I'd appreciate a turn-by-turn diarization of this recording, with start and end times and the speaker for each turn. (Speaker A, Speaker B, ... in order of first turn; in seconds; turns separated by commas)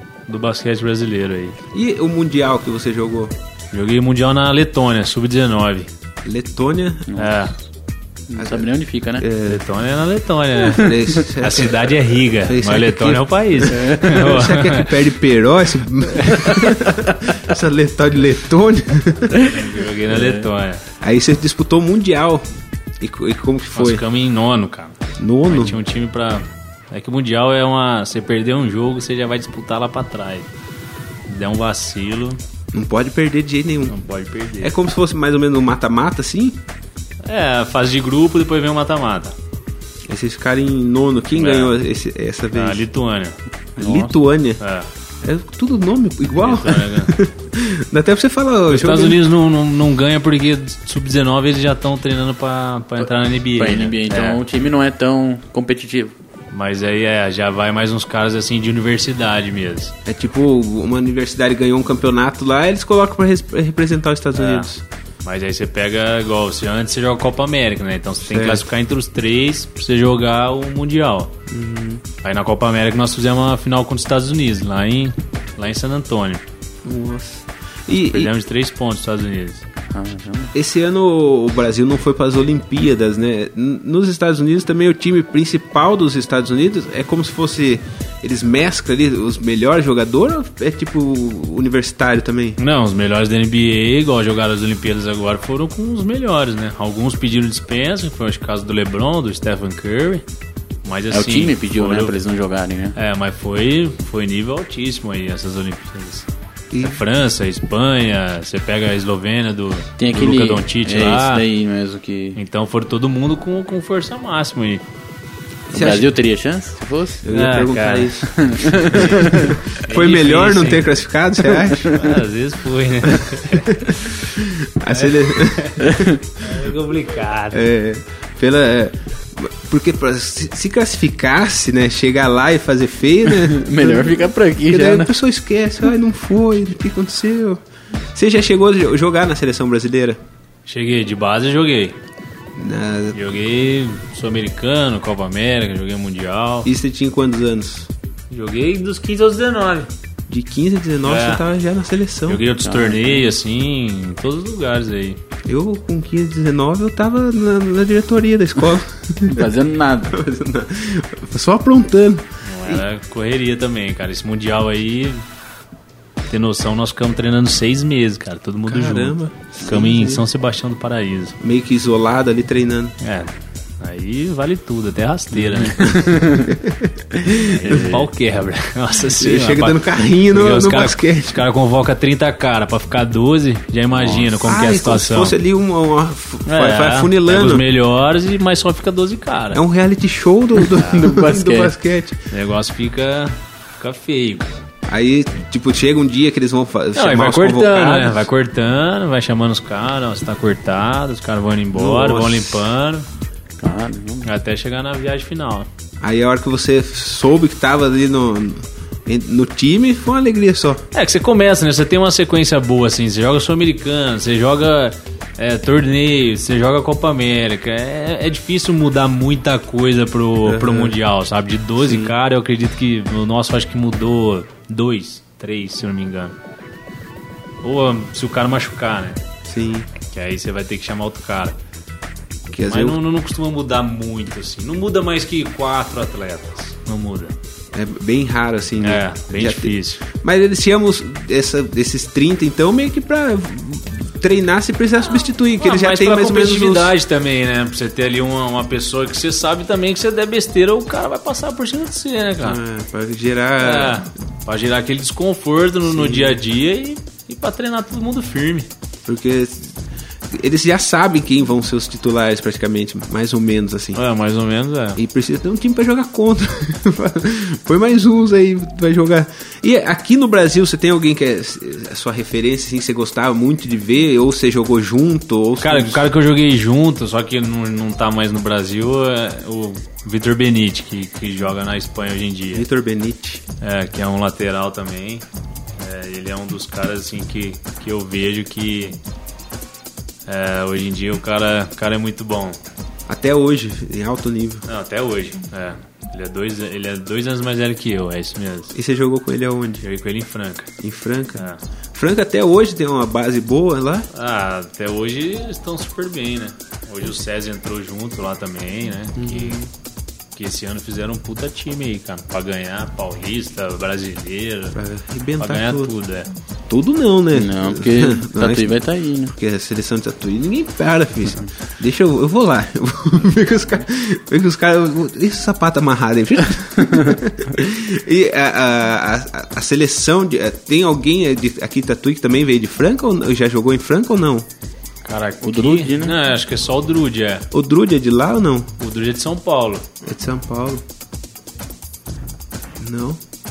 Speaker A: 0.3-1.6, Speaker B: 1.7-3.4, Speaker A: 3.7-5.9, Speaker B: 6.2-7.1, Speaker C: 7.1-7.4, Speaker A: 7.2-7.5, Speaker C: 8.3-9.3, Speaker B: 8.3-9.6, Speaker A: 9.5-14.9, Speaker B: 10.7-11.9, Speaker B: 12.4-19.6, Speaker A: 19.4-20.8, Speaker B: 21.0-22.4, Speaker B: 23.0-24.0, Speaker A: 23.8-30.5, Speaker B: 25.2-25.8, Speaker A: 31.3-32.4, Speaker B: 32.7-34.0, Speaker A: 33.9-34.8, Speaker B: 34.6-36.6, Speaker A: 37.2-39.4, Speaker B: 40.1-42.8, Speaker A: 41.4-41.8, Speaker A: 42.5-43.4, Speaker B: 43.8-44.6, Speaker C: 43.8-44.2, Speaker A: 44.6-44.9, Speaker B: 45.2-49.2, Speaker A: 46.4-47.1, Speaker A: 48.7-54.4, Speaker C: 53.0-56.1, Speaker A: 56.5-59.9, Speaker B: 60.0-64.8, Speaker A: 64.3-64.7, Speaker A: 65.2-71.3, Speaker B: 68.2-68.7, Speaker B: 71.5-72.0, Speaker A: 72.2-76.4, Speaker B: 76.8-78.3, Speaker A: 78.1-79.6, Speaker C: 79.9-80.5, Speaker B: 80.5-92.6, Speaker A: 92.6-100.2, Speaker A: 100.8-102.1, Speaker C: 101.1-103.0, Speaker A: 103.0-106.3, Speaker B: 106.7-107.0, Speaker A: 106.8-111.5, Speaker C: 110.0-112.4, Speaker A: 112.3-114.8, Speaker B: 115.7-116.1, Speaker C: 115.7-117.2, Speaker B: 117.2-122.1, Speaker A: 117.3-118.2, Speaker C: 118.3-119.5, Speaker A: 118.9-120.9, Speaker A: 121.8-124.0, Speaker B: 123.2-126.2, Speaker A: 124.9-125.9, Speaker C: 125.8-126.2, Speaker A: 126.4-127.7, Speaker B: 127.5-137.6, Speaker C: 133.3-135.1, Speaker B: 138.1-140.2, Speaker A: 140.7-142.0, Speaker B: 142.6-143.2, Speaker A: 143.1-146.7, Speaker B: 146.7-147.9, Speaker A: 148.3-149.9, Speaker B: 150.3-152.4, Speaker A: 151.1-151.4, Speaker A: 152.3-155.2, Speaker C: 152.6-153.3, Speaker B: 155.5-159.5, Speaker C: 159.3-160.2, Speaker B: 160.1-162.8, Speaker A: 162.4-165.2, Speaker A: 166.3-171.4, Speaker B: 168.7-170.2, Speaker B: 171.4-173.0, Speaker A: 173.0-176.2, Speaker C: 175.6-176.6, Speaker B: 176.5-178.0, Speaker A: 177.3-179.8, Speaker C: 177.7-178.0, Speaker B: 179.1-181.4, Speaker A: 180.3-185.4, Speaker B: 184.4-187.6, Speaker A: 186.5-189.6, Speaker B: 189.5-192.2, Speaker C: 190.6-191.7, Speaker A: 192.3-194.6, Speaker B: 194.9-198.3, Speaker A: 196.9-203.1, Speaker B: 201.7-202.6, Speaker C: 203.6-204.3, Speaker A: 204.2-205.7, Speaker B: 206.0-210.8, Speaker A: 210.9-226.3, Speaker B: 220.4-221.0, Speaker B: 221.8-222.1, Speaker A: 227.6-229.2, Speaker B: 229.5-229.9, Speaker A: 230.1-231.6, Speaker B: 232.5-233.0, Speaker A: 232.6-237.3, Speaker B: 237.7-246.9, Speaker A: 238.8-240.0, Speaker A: 245.6-252.6, Speaker B: 252.4-254.0, Speaker A: 253.6-258.7, Speaker B: 255.9-256.4, Speaker B: 259.1-259.7, Speaker B: 260.3-264.0, Speaker A: 263.9-265.0, Speaker B: 265.0-276.1, Speaker A: 275.6-282.7, Speaker B: 282.5-283.4, Speaker A: 283.6-285.2, Speaker A: 285.8-289.0, Speaker A: 290.3-292.6, Speaker B: 293.1-294.7, Speaker A: 294.7-298.7, Speaker B: 298.7-299.9, Speaker A: 299.8-300.7, Speaker B: 300.8-301.4, Speaker B: 301.9-304.1, Speaker A: 304.1-309.6, Speaker B: 309.2-309.7, Speaker A: 310.4-314.8, Speaker B: 314.7-315.9, Speaker A: 315.4-316.3, Speaker B: 316.7-334.5, Speaker C: 317.3-319.3, Speaker A: 335.1-337.5, Speaker C: 335.4-336.1, Speaker B: 337.5-338.7, Speaker A: 338.8-339.9, Speaker B: 340.0-340.8, Speaker B: 342.8-343.2